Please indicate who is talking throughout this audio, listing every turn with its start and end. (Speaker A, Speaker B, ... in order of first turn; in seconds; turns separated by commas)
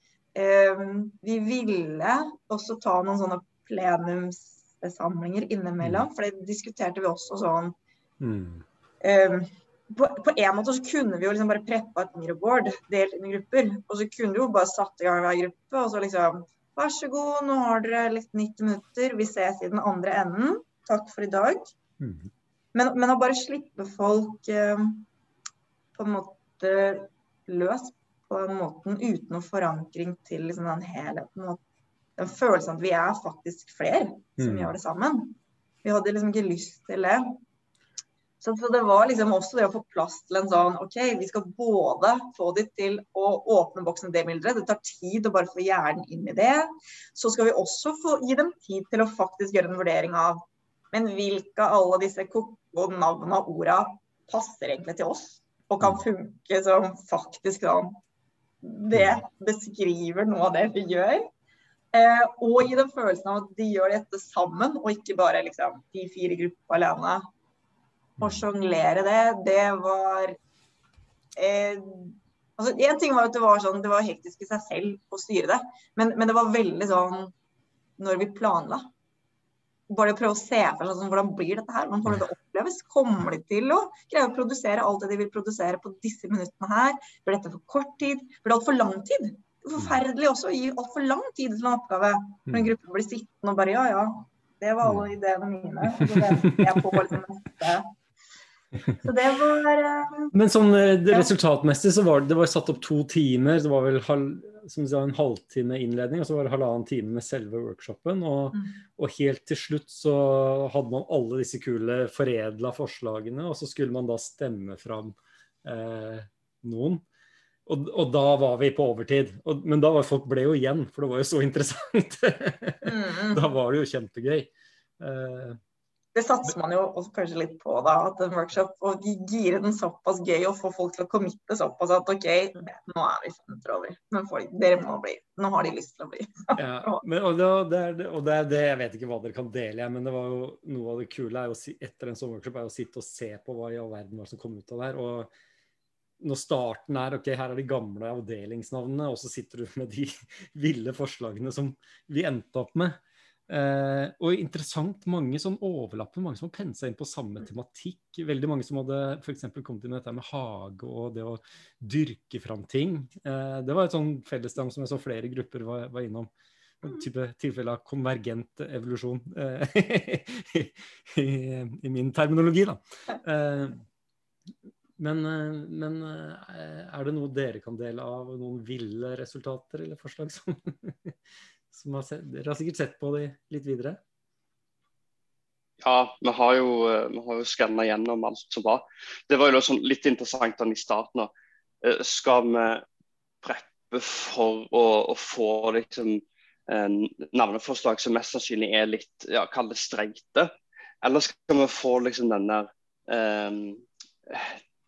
Speaker A: 0.3-7.7, Speaker B: 5.8-6.1, Speaker B: 8.2-8.6, Speaker A: 9.0-21.7, Speaker B: 22.0-22.3, Speaker A: 22.7-25.1, Speaker A: 25.9-31.6, Speaker A: 32.2-37.2, Speaker B: 34.4-34.7, Speaker A: 38.4-50.4, Speaker A: 50.9-57.9, Speaker A: 58.6-61.2, Speaker B: 58.9-59.2, Speaker A: 61.9-67.2, Speaker B: 68.2-68.5, Speaker A: 68.2-70.3, Speaker A: 71.3-77.3, Speaker A: 78.0-78.9, Speaker A: 79.9-97.9, Speaker B: 94.8-95.1, Speaker A: 99.0-100.3, Speaker B: 100.3-117.0, Speaker B: 117.7-125.6, Speaker A: 122.8-123.5, Speaker A: 126.1-137.0, Speaker B: 136.6-145.3, Speaker B: 146.2-153.0, Speaker B: 153.5-166.3, Speaker B: 166.8-173.8, Speaker B: 175.0-181.1, Speaker B: 181.7-184.0, Speaker C: 185.8-191.3, Speaker C: 191.8-192.8, Speaker C: 193.4-200.5, Speaker C: 201.0-204.6